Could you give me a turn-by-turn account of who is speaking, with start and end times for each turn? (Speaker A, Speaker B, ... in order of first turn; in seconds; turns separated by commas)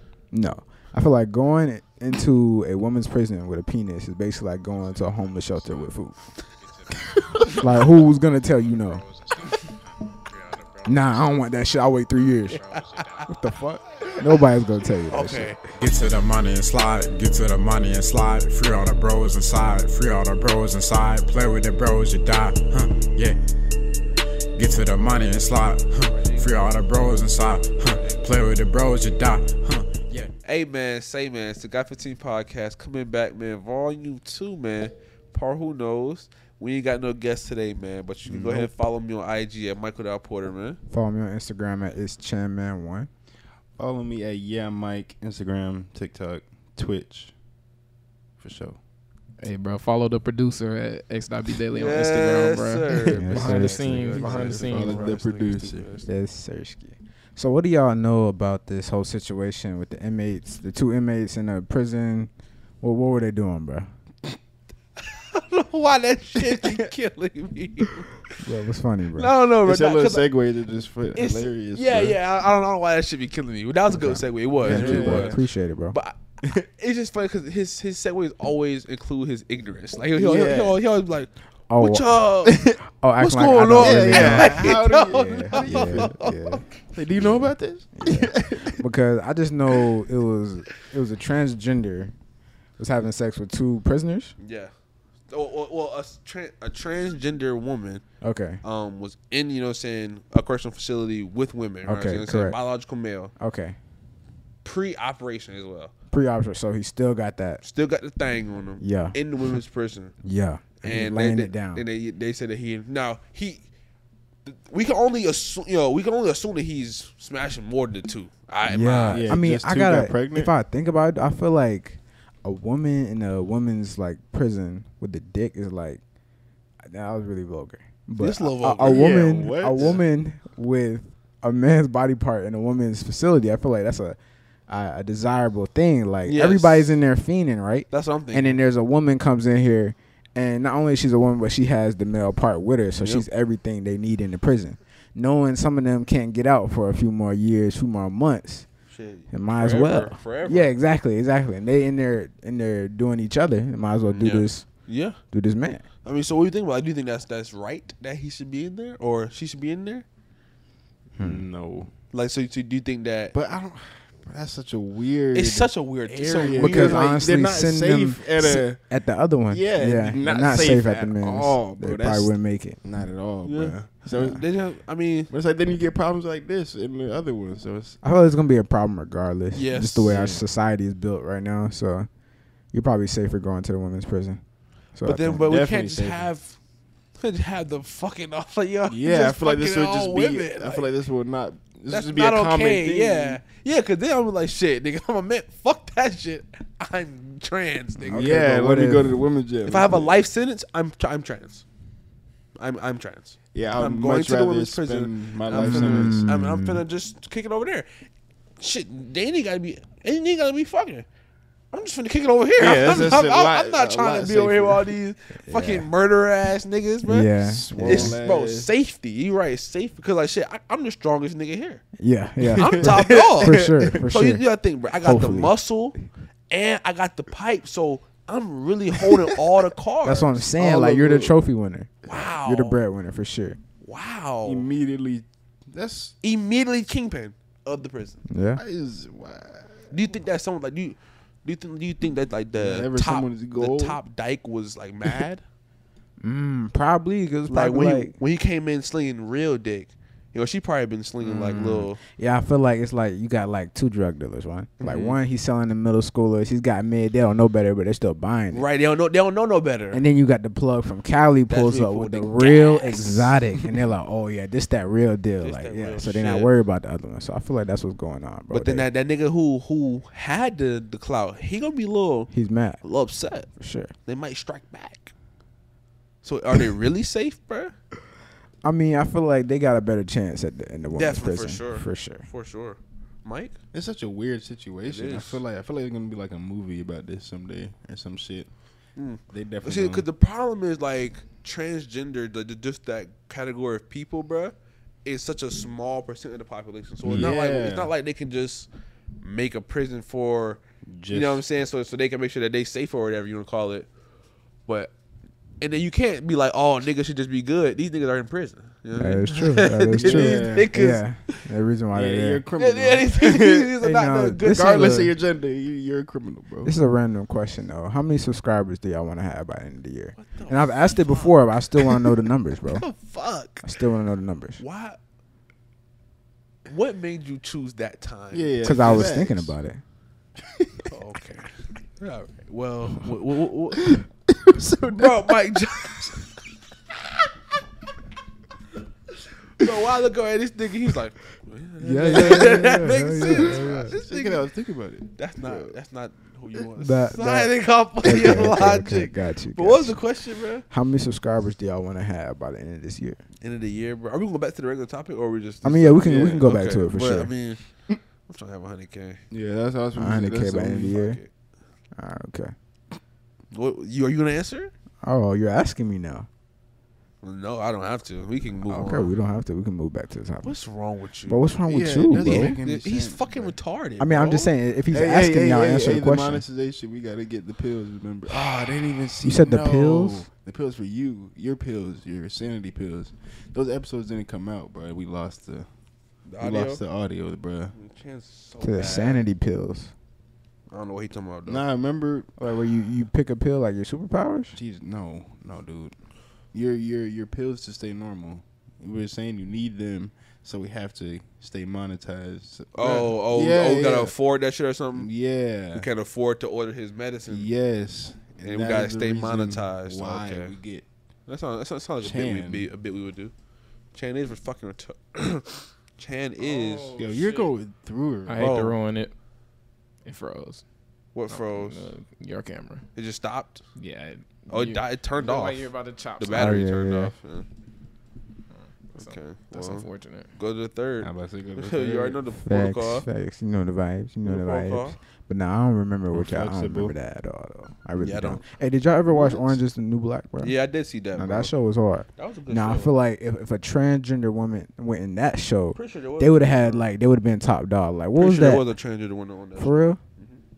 Speaker A: 0.3-6.2, Speaker B: 7.4-7.7, Speaker A: 7.5-9.0, Speaker A: 10.8-12.6, Speaker B: 12.5-13.3, Speaker A: 13.3-15.6, Speaker B: 15.1-15.6, Speaker C: 15.8-23.3, Speaker C: 24.6-30.0, Speaker B: 26.0-26.7, Speaker B: 27.9-28.2, Speaker B: 30.4-40.8, Speaker D: 38.3-38.7, Speaker A: 40.9-43.1, Speaker D: 43.8-47.3, Speaker D: 48.4-48.8, Speaker E: 49.4-55.1, Speaker B: 51.7-56.1, Speaker A: 53.1-54.6, Speaker D: 54.2-55.9, Speaker A: 56.0-62.3, Speaker A: 62.8-63.9, Speaker B: 65.0-68.4, Speaker D: 66.5-66.8, Speaker A: 68.4-69.3, Speaker B: 69.2-70.2, Speaker D: 69.6-72.2, Speaker B: 71.1-86.6, Speaker A: 73.9-76.0, Speaker D: 74.6-75.4, Speaker D: 80.2-80.8, Speaker A: 81.7-82.2, Speaker D: 82.5-82.8, Speaker A: 83.0-86.6, Speaker D: 83.8-86.1, Speaker D: 86.9-88.8, Speaker A: 88.0-92.1, Speaker A: 92.8-94.3, Speaker B: 94.4-94.7, Speaker B: 95.3-98.0, Speaker A: 98.2-98.6, Speaker B: 98.6-103.3, Speaker A: 101.8-102.6, Speaker A: 103.4-103.8, Speaker B: 104.6-105.9, Speaker A: 106.1-107.6, Speaker B: 107.6-110.1, Speaker A: 108.8-109.2, Speaker A: 110.2-111.8, Speaker B: 110.8-113.6, Speaker B: 114.4-119.4, Speaker A: 118.7-126.0, Speaker D: 119.1-120.5, Speaker A: 126.9-134.2, Speaker B: 128.2-129.1, Speaker D: 128.8-130.0, Speaker B: 129.7-130.0, Speaker A: 134.7-148.7, Speaker B: 136.2-137.0, Speaker B: 137.9-138.6, Speaker B: 142.9-143.3, Speaker B: 148.9-150.7, Speaker A: 149.3-154.7, Speaker B: 154.1-155.2, Speaker A: 155.3-155.8, Speaker B: 156.0-160.0, Speaker D: 161.2-161.9, Speaker A: 161.2-161.4, Speaker B: 162.1-163.3, Speaker D: 163.3-168.9, Speaker B: 165.3-167.0, Speaker A: 166.5-172.8, Speaker D: 169.5-174.4, Speaker B: 173.4-175.3, Speaker D: 175.3-178.0, Speaker A: 178.0-182.1, Speaker B: 179.5-180.2, Speaker D: 180.1-180.4, Speaker A: 182.7-184.4, Speaker A: 184.9-185.4, Speaker B: 185.0-186.6, Speaker D: 185.4-186.3, Speaker B: 187.2-190.9, Speaker D: 188.9-193.4, Speaker B: 191.9-198.4, Speaker D: 198.1-200.2, Speaker A: 198.1-199.2, Speaker B: 199.7-201.6, Speaker B: 202.6-207.9, Speaker D: 203.5-206.2, Speaker A: 205.5-206.8, Speaker B: 208.6-211.1, Speaker B: 211.7-221.8, Speaker D: 212.6-214.9, Speaker A: 215.5-215.9, Speaker A: 217.0-218.2, Speaker D: 217.4-218.7, Speaker A: 222.0-224.4, Speaker D: 222.5-224.0, Speaker B: 222.6-226.0, Speaker A: 225.0-225.5, Speaker B: 226.5-230.4, Speaker A: 230.0-233.6, Speaker D: 230.6-231.3, Speaker B: 232.1-232.8, Speaker B: 233.8-234.7, Speaker D: 234.4-236.1, Speaker B: 236.2-238.2, Speaker A: 238.3-238.6, Speaker D: 238.6-239.8, Speaker B: 239.9-245.4, Speaker D: 242.5-244.0, Speaker A: 246.2-248.1, Speaker B: 247.5-252.0, Speaker A: 251.2-258.6, Speaker B: 254.8-255.2, Speaker B: 258.5-260.0, Speaker A: 259.9-268.9, Speaker B: 261.5-263.6, Speaker B: 265.4-266.5, Speaker B: 268.5-272.3, Speaker A: 272.3-272.8, Speaker B: 272.8-273.5, Speaker A: 273.6-273.9, Speaker B: 274.1-275.1, Speaker B: 276.2-277.7, Speaker A: 278.6-282.2, Speaker B: 280.9-283.5, Speaker D: 283.7-288.5, Speaker B: 284.9-285.4, Speaker B: 288.9-298.7, Speaker D: 289.3-290.1, Speaker D: 297.0-297.9, Speaker B: 299.2-303.9, Speaker D: 300.9-301.4, Speaker B: 304.7-304.9, Speaker B: 305.6-311.0, Speaker A: 308.9-312.4, Speaker D: 310.0-310.7, Speaker D: 311.9-313.7, Speaker B: 312.5-315.1, Speaker A: 313.8-315.1, Speaker D: 314.4-316.7, Speaker A: 316.6-322.9, Speaker B: 320.1-321.9, Speaker B: 322.6-323.7, Speaker A: 323.6-324.6, Speaker B: 324.6-325.0, Speaker B: 326.6-329.1, Speaker D: 328.3-329.5, Speaker A: 328.6-329.8, Speaker D: 330.4-330.9, Speaker B: 330.9-333.9, Speaker D: 333.8-336.1, Speaker B: 334.9-336.3, Speaker B: 339.6-344.4, Speaker D: 341.8-345.7, Speaker A: 341.8-343.9, Speaker B: 345.2-350.6, Speaker A: 346.8-350.0, Speaker A: 350.7-353.2, Speaker B: 353.4-357.6, Speaker A: 355.6-357.3, Speaker D: 356.0-356.4, Speaker B: 358.3-359.2, Speaker D: 359.3-361.0, Speaker A: 359.9-361.2, Speaker B: 360.9-361.3, Speaker A: 362.0-362.5, Speaker B: 363.5-364.7, Speaker A: 365.0-366.3, Speaker B: 367.2-369.1, Speaker A: 368.7-370.6, Speaker B: 370.4-371.4, Speaker A: 371.3-372.6, Speaker D: 371.6-373.5, Speaker B: 372.1-374.5, Speaker A: 374.0-376.4, Speaker D: 374.9-385.7, Speaker B: 378.3-378.8, Speaker A: 379.2-380.3, Speaker B: 386.3-386.8, Speaker D: 386.4-387.7, Speaker B: 387.7-389.3, Speaker A: 388.6-389.9, Speaker B: 390.7-391.6, Speaker D: 391.4-392.3, Speaker A: 392.4-394.6, Speaker D: 394.5-395.9, Speaker D: 396.5-404.1, Speaker B: 402.7-405.1, Speaker D: 404.9-405.9, Speaker B: 405.7-407.5, Speaker D: 407.3-410.8, Speaker B: 408.4-410.6, Speaker B: 411.3-413.3, Speaker D: 412.0-412.7, Speaker B: 413.9-416.9, Speaker E: 416.4-417.5, Speaker D: 416.9-418.5, Speaker E: 418.2-419.1, Speaker B: 418.4-418.8, Speaker E: 420.0-420.6, Speaker B: 421.1-421.9, Speaker E: 421.3-422.8, Speaker B: 422.9-423.6, Speaker E: 423.8-426.7, Speaker B: 424.5-427.5, Speaker A: 426.3-427.1, Speaker E: 428.9-430.3, Speaker B: 428.9-433.1, Speaker D: 431.0-432.2, Speaker A: 432.4-440.6, Speaker B: 434.2-435.0, Speaker D: 436.1-436.9, Speaker B: 438.0-438.4, Speaker D: 439.1-439.4, Speaker B: 439.2-439.5, Speaker B: 440.4-441.5, Speaker A: 441.1-448.7, Speaker B: 442.2-443.0, Speaker B: 445.7-446.9, Speaker B: 448.1-450.4, Speaker A: 449.6-450.0